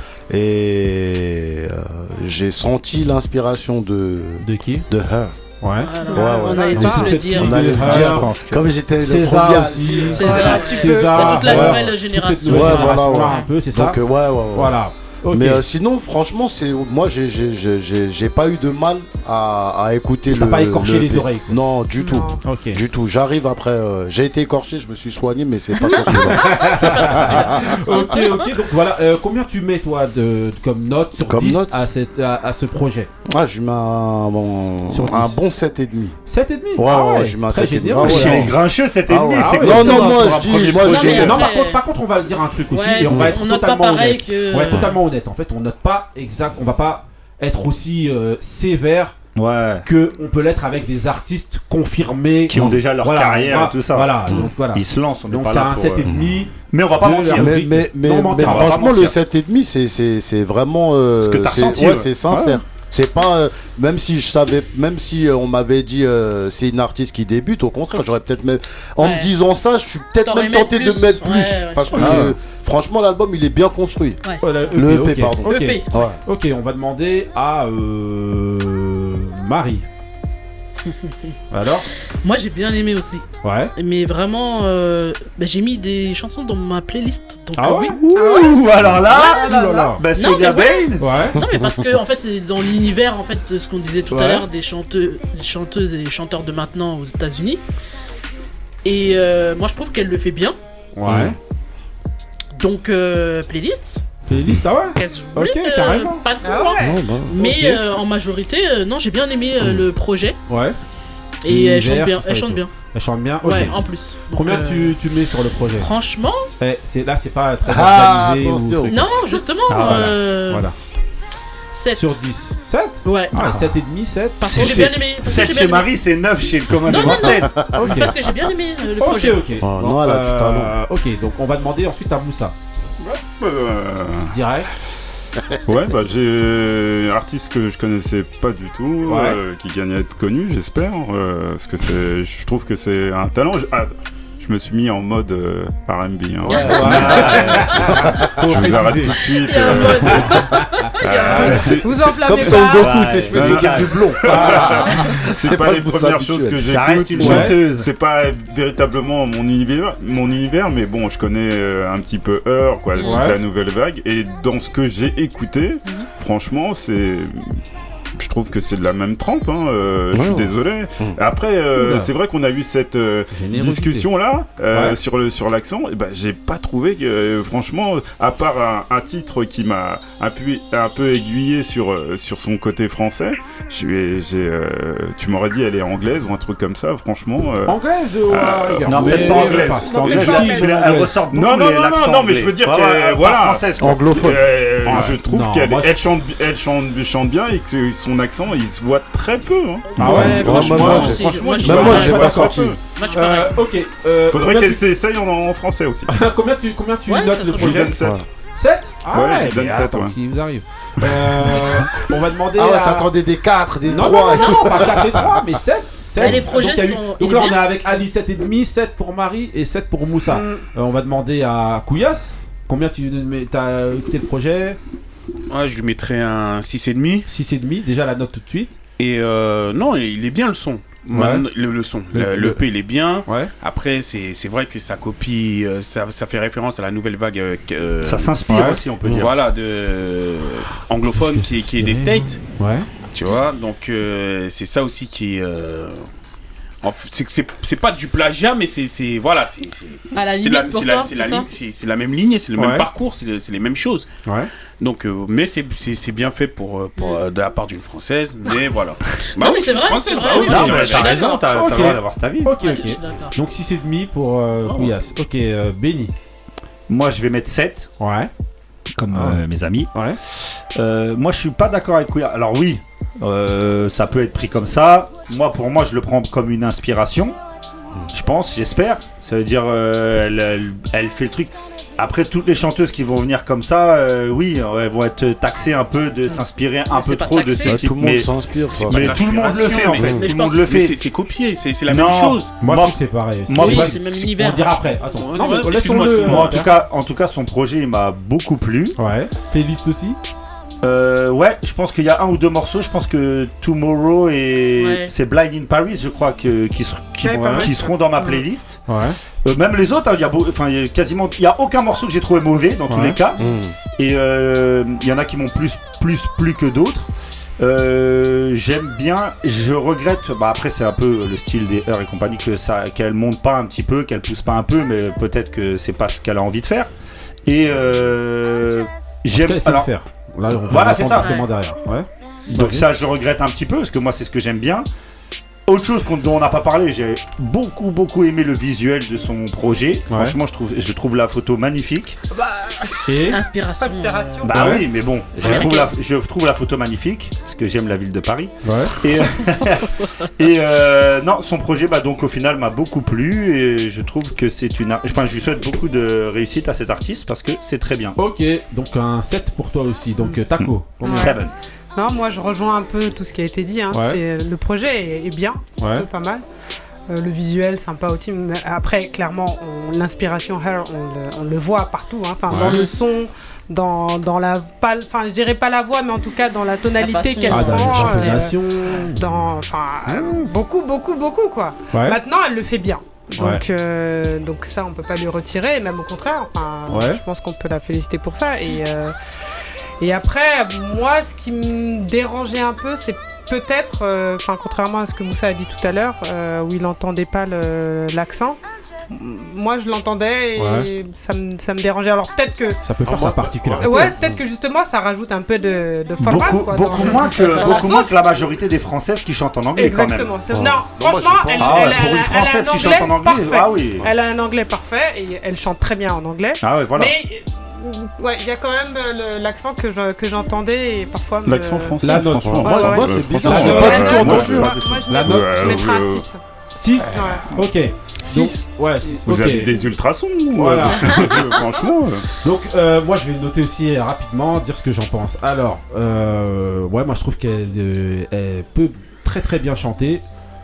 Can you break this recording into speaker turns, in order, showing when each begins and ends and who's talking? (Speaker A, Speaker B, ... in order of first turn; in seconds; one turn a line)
Speaker A: 0.3-5.3
Speaker B: 4.4-4.9
Speaker B: 5.6-6.0
Speaker C: 5.8-7.6
Speaker D: 6.1-7.1
Speaker A: 6.1-10.5
Speaker B: 6.5-8.3
Speaker E: 7.6-8.7
Speaker B: 9.0-14.0
Speaker C: 10.1-13.5
Speaker D: 10.2-11.5
Speaker A: 11.3-11.8
Speaker A: 12.4-14.8
Speaker B: 14.5-15.6
Speaker A: 15.3-28.1
Speaker B: 20.3-21.6
Speaker D: 22.0-22.4
Speaker B: 22.4-22.8
Speaker C: 25.9-28.5
Speaker B: 26.1-33.1
Speaker A: 31.2-31.8
Speaker A: 33.3-36.2
Speaker B: 34.9-35.4
Speaker B: 36.3-38.5
Speaker A: 36.8-41.5
Speaker E: 38.0-41.4
Speaker B: 39.4-49.2
Speaker C: 40.8-41.8
Speaker C: 42.7-45.0
Speaker A: 43.1-43.4
Speaker E: 49.4-49.9
Speaker B: 49.8-59.1
Speaker E: 52.5-56.1
Speaker A: 56.1-56.3
Speaker E: 56.7-57.7
Speaker A: 57.2-74.2
Speaker E: 58.3-59.1
Speaker E: 61.2-62.6
Speaker C: 69.0-69.3
Speaker C: 70.2-72.2
Speaker B: 71.9-72.3
Speaker C: 74.2-74.8
Speaker B: 74.4-79.8
Speaker A: 74.7-76.2
Speaker C: 75.4-75.9
Speaker C: 80.8-81.3
Speaker B: 81.5-81.9
Speaker C: 82.2-88.2
Speaker B: 83.4-83.7
Speaker B: 87.6-90.0
Speaker E: 88.2-91.2
Speaker D: 88.2-89.9
Speaker C: 90.1-97.6
Speaker B: 91.0-91.4
Speaker A: 91.4-91.8
Speaker B: 94.1-94.5
Speaker C: 98.8-100.6
Speaker B: 101.0-101.4
Speaker A: 101.0-101.4
Speaker C: 102.6-104.0
Speaker B: 104.3-106.2
Speaker C: 104.9-110.4
Speaker D: 106.4-107.0
Speaker A: 106.8-107.4
Speaker B: 107.4-107.8
Speaker B: 110.5-110.8
Speaker C: 111.5-112.7
Speaker B: 111.5-115.9
Speaker C: 113.4-115.0
Speaker C: 115.8-116.5
Speaker B: 116.6-119.1
Speaker A: 117.7-119.0
Speaker C: 118.9-120.7
Speaker E: 119.7-120.2
Speaker B: 119.8-120.7
Speaker C: 121.7-122.2
Speaker B: 121.9-124.9
Speaker C: 123.0-123.8
Speaker C: 124.4-125.9
Speaker E: 124.4-127.5
Speaker C: 126.8-129.6
Speaker A: 126.9-128.0
Speaker B: 127.7-128.1
Speaker B: 129.0-132.6
Speaker A: 129.6-130.7
Speaker F: 133.0-134.4
Speaker B: 134.3-134.7
Speaker F: 135.7-150.4
Speaker B: 139.1-139.4
Speaker A: 146.4-149.2
Speaker B: 146.6-149.1
Speaker E: 146.8-147.7
Speaker C: 149.4-151.7
Speaker B: 149.8-151.7
Speaker F: 151.0-152.6
Speaker A: 151.6-156.7
Speaker D: 151.8-153.1
Speaker E: 152.7-154.6
Speaker F: 153.3-167.6
Speaker B: 154.2-154.9
Speaker E: 156.6-157.9
Speaker B: 157.2-157.6
Speaker C: 163.0-163.3
Speaker B: 163.0-163.4
Speaker F: 168.2-187.8
Speaker A: 170.1-171.2
Speaker B: 171.8-172.1
Speaker B: 173.3-174.1
Speaker B: 174.7-175.0
Speaker B: 187.7-191.1
Speaker F: 188.3-189.6
Speaker E: 188.9-194.4
Speaker D: 189.1-190.8
Speaker F: 191.3-202.8
Speaker A: 193.8-194.4
Speaker B: 194.8-196.0
Speaker C: 199.9-203.6
Speaker A: 200.0-202.8
Speaker B: 200.0-204.8
Speaker F: 204.3-206.1
Speaker B: 206.1-208.0
Speaker C: 207.1-207.9
Speaker F: 207.6-208.2
Speaker A: 208.0-208.2
Speaker B: 208.6-213.1
Speaker F: 209.1-210.1
Speaker A: 212.6-215.4
Speaker B: 213.9-224.8
Speaker C: 214.3-215.2
Speaker C: 216.2-217.7
Speaker D: 220.2-220.6
Speaker G: 225.5-227.3
Speaker B: 227.3-228.8
Speaker G: 229.0-238.4
Speaker B: 231.1-231.5
Speaker B: 232.1-233.5
Speaker E: 238.0-239.3
Speaker B: 238.5-238.8
Speaker G: 239.1-242.4
Speaker B: 241.2-242.9
Speaker G: 243.1-246.1
Speaker G: 246.8-254.1
Speaker C: 250.1-251.5
Speaker B: 252.6-252.9
Speaker B: 254.3-254.5
Speaker G: 254.8-261.2
Speaker C: 257.0-257.2
Speaker C: 259.3-261.9
Speaker B: 260.3-266.1
Speaker E: 260.4-262.6
Speaker C: 262.5-263.4
Speaker G: 264.6-265.0
Speaker E: 266.9-267.9
Speaker B: 268.0-268.3
Speaker E: 269.0-277.4
Speaker B: 269.1-269.4
Speaker B: 269.9-270.2
Speaker E: 278.1-291.1
Speaker C: 286.9-287.9
Speaker A: 287.6-289.3
Speaker G: 288.7-292.6
Speaker A: 289.9-290.2
Speaker E: 291.9-294.0
Speaker B: 292.6-296.7
Speaker C: 293.6-294.9
Speaker G: 295.0-296.7
Speaker E: 296.2-299.0
Speaker B: 299.0-300.2
Speaker E: 300.8-308.9
Speaker C: 304.8-305.1
Speaker D: 307.2-308.0
Speaker B: 307.3-307.7
Speaker B: 308.9-309.2
Speaker E: 309.4-313.4
Speaker B: 312.9-313.2
Speaker A: 313.4-313.8
Speaker E: 314.0-317.1
Speaker E: 317.6-326.9
Speaker E: 327.5-329.9
Speaker B: 329.3-332.9
Speaker E: 330.7-331.4
Speaker C: 331.0-331.5
Speaker E: 332.5-334.9
Speaker E: 335.7-342.2
Speaker B: 340.1-340.4
Speaker D: 342.3-343.2
Speaker B: 343.1-343.4
Speaker C: 343.3-344.5
Speaker D: 343.8-344.9
Speaker B: 344.4-344.8
Speaker E: 344.4-358.2
Speaker C: 345.4-345.9
Speaker B: 345.4-345.6
Speaker B: 348.6-349.0
Speaker B: 358.2-361.4
Speaker E: 360.6-361.5
Speaker D: 361.0-361.4
Speaker D: 361.9-366.4
Speaker B: 363.9-364.2
Speaker B: 365.8-366.1
Speaker D: 367.1-389.1
Speaker B: 372.5-372.8
Speaker C: 372.6-372.9
Speaker C: 376.9-378.4
Speaker B: 377.5-379.3
Speaker B: 380.1-380.5
Speaker B: 381.9-382.2
Speaker B: 383.4-383.6
Speaker B: 386.9-387.2
Speaker D: 390.0-398.6
Speaker D: 399.1-402.8
Speaker B: 400.6-400.9
Speaker B: 402.8-404.1
Speaker A: 403.1-404.4
Speaker D: 403.8-408.1
Speaker E: 406.2-410.3
Speaker C: 407.3-408.2
Speaker D: 409.8-426.4
Speaker A: 410.5-412.3
Speaker E: 411.6-414.1
Speaker E: 416.6-417.1
Speaker F: 421.4-426.3
Speaker B: 422.0-425.6
Speaker A: 422.5-424.8
Speaker E: 424.5-425.0
Speaker B: 426.8-429.7
Speaker D: 427.1-427.5
Speaker A: 428.2-428.6
Speaker F: 429.2-432.3
Speaker B: 430.6-431.3
Speaker B: 432.4-440.3